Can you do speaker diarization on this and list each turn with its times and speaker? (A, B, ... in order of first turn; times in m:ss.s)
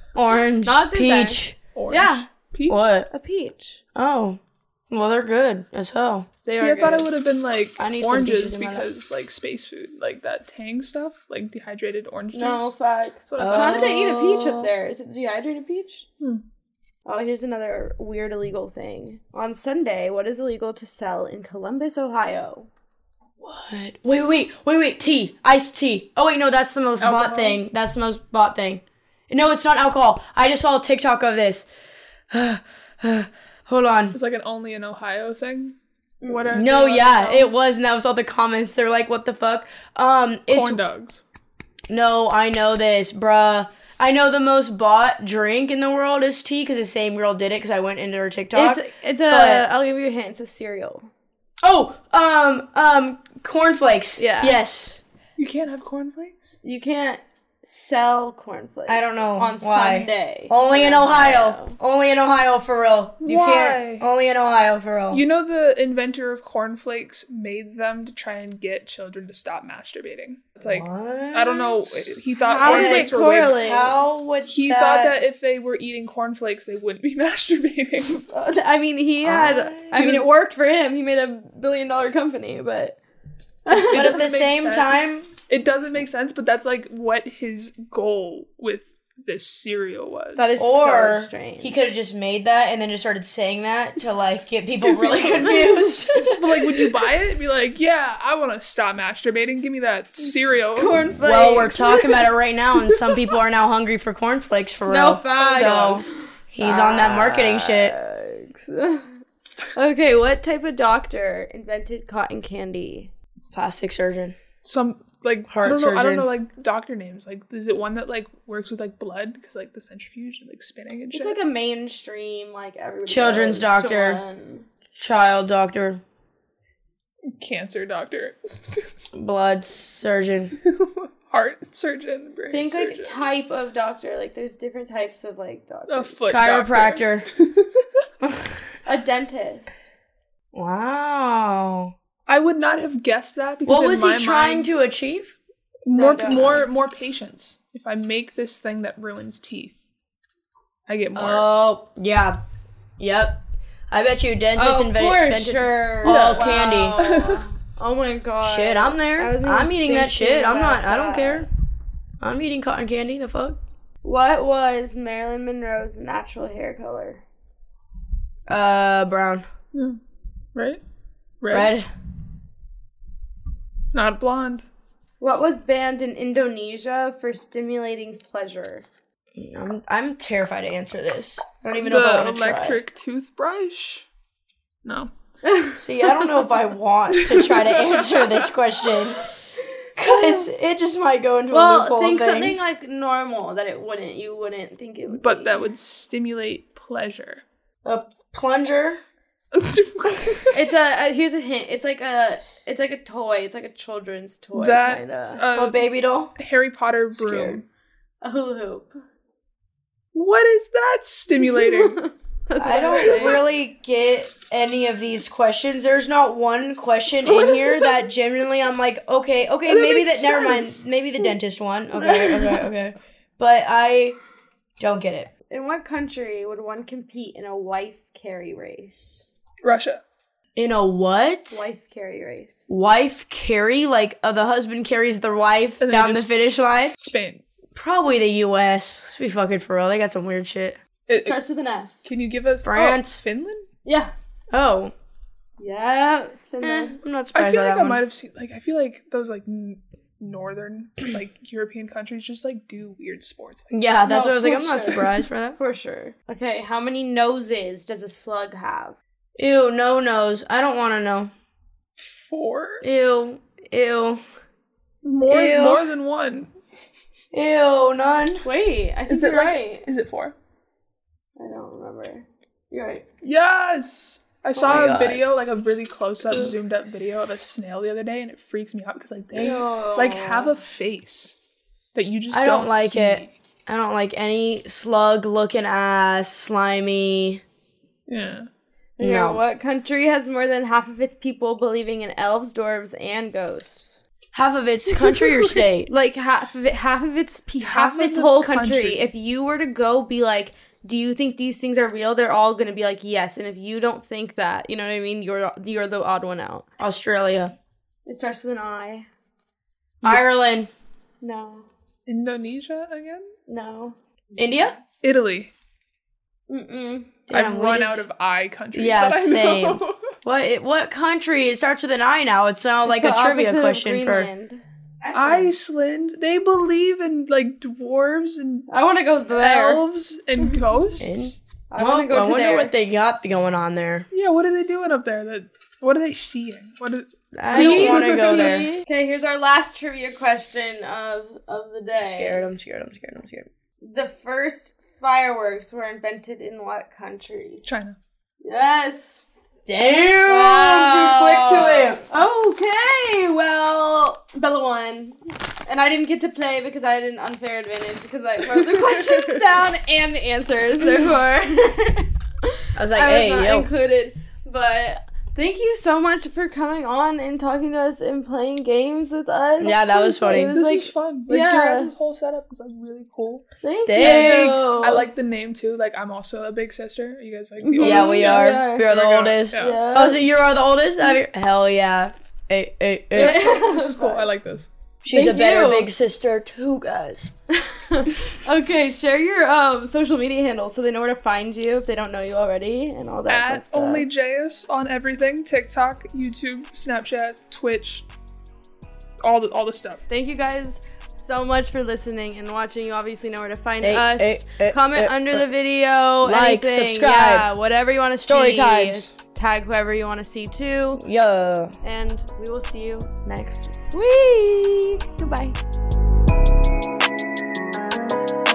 0:00.1-0:01.6 A
0:00.6-0:02.3 B
0:01.7-0:02.9 C
0:02.7-0:03.1 A
0:03.1-0:03.8 B
0:03.9-0:06.3 A
0:06.5-0:12.7 C
0:06.5-0:07.1 B
0:07.8-0:08.9 A
0:12.3-0:16.1 B
0:13.2-0:14.0 C
0:13.4-0:14.7 A
0:17.0-0:22.7 B
0:23.4-0:31.6 A
0:27.0-0:27.6 C
0:32.3-0:34.2 A
0:34.1-0:37.5 C
0:36.5-0:40.8 A
0:40.5-0:41.2 C
0:41.9-0:49.6 A
0:48.5-0:51.1 B
0:51.6-0:55.0 A
0:54.2-0:54.6 B
0:55.4-0:56.6 C
0:56.6-1:01.8 B
0:58.9-1:05.2 A
1:03.2-1:04.0 C
1:05.1-1:13.6 C
1:10.6-1:12.1 A
1:12.4-1:13.9 B
1:12.6-1:15.2 A
1:14.5-1:18.3 C
1:18.3-1:23.0 B
1:19.2-1:20.2 A
1:19.9-1:20.3 C
1:23.6-1:24.2 B
1:23.8-1:25.0 C
1:23.8-1:25.3 A
1:25.5-1:30.6 C
1:30.4-1:31.7 B
1:30.6-1:37.0 A
1:34.8-1:41.2 C
1:40.7-1:42.2 B
1:41.2-1:47.9 A
1:44.9-1:49.1 B
1:45.4-1:45.9 C
1:49.7-1:53.1 B
1:53.5-1:54.4 A
1:54.6-2:01.4 C
1:55.5-1:56.3 A
2:01.1-2:04.7 B
2:03.1-2:04.2 A
2:04.9-2:06.0 A
2:07.3-2:08.8 C
2:09.1-2:10.5 A
2:10.6-2:13.2 C
2:12.5-2:16.4 B
2:15.9-2:17.8 C
2:16.3-2:17.2 A
2:18.2-2:18.6 A
2:18.8-2:19.9 B
2:20.5-2:21.9 A
2:22.3-2:24.7 C
2:23.6-2:25.4 A
2:25.8-2:29.8 C
2:25.9-2:26.7 B
2:30.9-2:31.5 C
2:31.1-2:32.4 A
2:33.0-2:37.0 A
2:34.5-2:41.5 B
2:36.0-2:37.4 C
2:38.4-2:41.5 A
2:42.2-2:43.6 A
2:44.0-2:47.2 B
2:48.5-2:49.4 A
2:49.7-2:50.0 C
2:50.5-2:50.8 C
2:51.4-2:51.7 C
2:51.5-2:51.9 A
2:53.9-2:54.7 C
2:55.2-2:58.8 B
2:59.3-3:02.8 A
3:01.8-3:04.0 C
3:04.8-3:05.1 C
3:05.4-3:05.8 B
3:05.7-3:09.2 A
3:07.1-3:08.5 C
3:10.0-3:10.5 B
3:10.0-3:12.7 A
3:11.5-3:15.7 B
3:15.1-3:17.4 C
3:17.8-3:19.0 A
3:19.5-3:20.6 C
3:20.5-3:25.4 B
3:24.5-3:25.8 C
3:25.5-3:26.3 A
3:26.4-3:27.6 C
3:27.2-3:27.6 A
3:28.2-3:28.9 B
3:30.1-3:32.0 C
3:31.6-3:33.4 B
3:32.6-3:44.2 A
3:37.3-3:37.9 C
3:39.6-3:40.8 C
3:42.1-3:42.4 C
3:44.8-3:45.3 A
3:45.5-3:49.2 B
3:49.6-3:50.0 C
3:50.5-3:51.6 A
3:51.5-3:52.7 B
3:52.7-3:56.9 A
3:55.8-3:56.3 C
3:57.0-3:57.4 C
3:57.7-4:00.8 A
4:01.1-4:01.4 C
4:01.2-4:02.0 B
4:02.0-4:03.7 C
4:02.6-4:03.2 A
4:03.8-4:04.1 B
4:04.5-4:04.9 A
4:05.6-4:07.0 B
4:06.6-4:08.0 A
4:07.3-4:13.7 C
4:13.7-4:15.6 A
4:14.0-4:19.0 B
4:14.8-4:15.1 C
4:19.4-4:21.3 A
4:22.2-4:22.8 C
4:22.8-4:24.2 A
4:25.0-4:26.5 C
4:25.3-4:25.9 A
4:27.3-4:28.4 A
4:28.4-4:29.8 B
4:29.1-4:30.3 C
4:31.4-4:33.0 B
4:33.2-4:41.3 C
4:34.5-4:35.2 A
4:39.3-4:40.5 B
4:39.4-4:39.6 A
4:41.9-4:43.3 C
4:42.3-4:47.4 A
4:48.1-4:48.5 C
4:49.0-4:54.0 B
4:49.0-4:49.4 A
4:54.3-4:55.9 A
4:54.9-4:55.6 C
4:55.9-5:06.6 B
4:57.6-4:59.1 C
5:06.8-5:07.5 A
5:08.0-5:09.1 B
5:10.0-5:10.7 A
5:11.2-5:11.6 B
5:12.0-5:13.3 C
5:13.5-5:14.0 B
5:14.4-5:14.8 A
5:15.0-5:15.5 C
5:16.5-5:17.1 B
5:17.3-5:18.0 A
5:17.3-5:20.2 C
5:18.7-5:24.3 A
5:22.8-5:25.5 B
5:25.1-5:28.7 C
5:28.7-5:29.8 B
5:29.3-5:31.3 C
5:31.0-5:34.1 A
5:31.7-5:32.7 B
5:34.1-5:38.6 C
5:37.3-5:38.7 A
5:37.5-5:42.4 B
5:42.0-5:43.5 A
5:43.8-5:47.6 B
5:47.6-5:48.0 C
5:48.4-5:49.2 B
5:49.6-5:52.0 A
5:50.2-6:11.9 B
5:58.6-5:59.4 C
6:02.8-6:03.7 A
6:09.6-6:10.6 A
6:09.6-6:13.4 C
6:13.6-6:15.1 B
6:13.8-6:14.8 A
6:14.0-6:19.8 C
6:17.6-6:18.8 B
6:17.8-6:23.4 A
6:19.5-6:20.2 B
6:23.1-6:24.3 B
6:23.2-6:24.7 C
6:25.0-6:27.3 A
6:25.1-6:25.9 B
6:27.5-6:34.0 B
6:33.3-6:38.1 C
6:39.2-6:40.0 C
6:40.1-6:51.0 B
6:43.8-6:45.4 A
6:46.2-6:47.5 A
6:48.2-6:49.1 A
6:51.0-6:51.7 A
6:51.8-6:55.6 B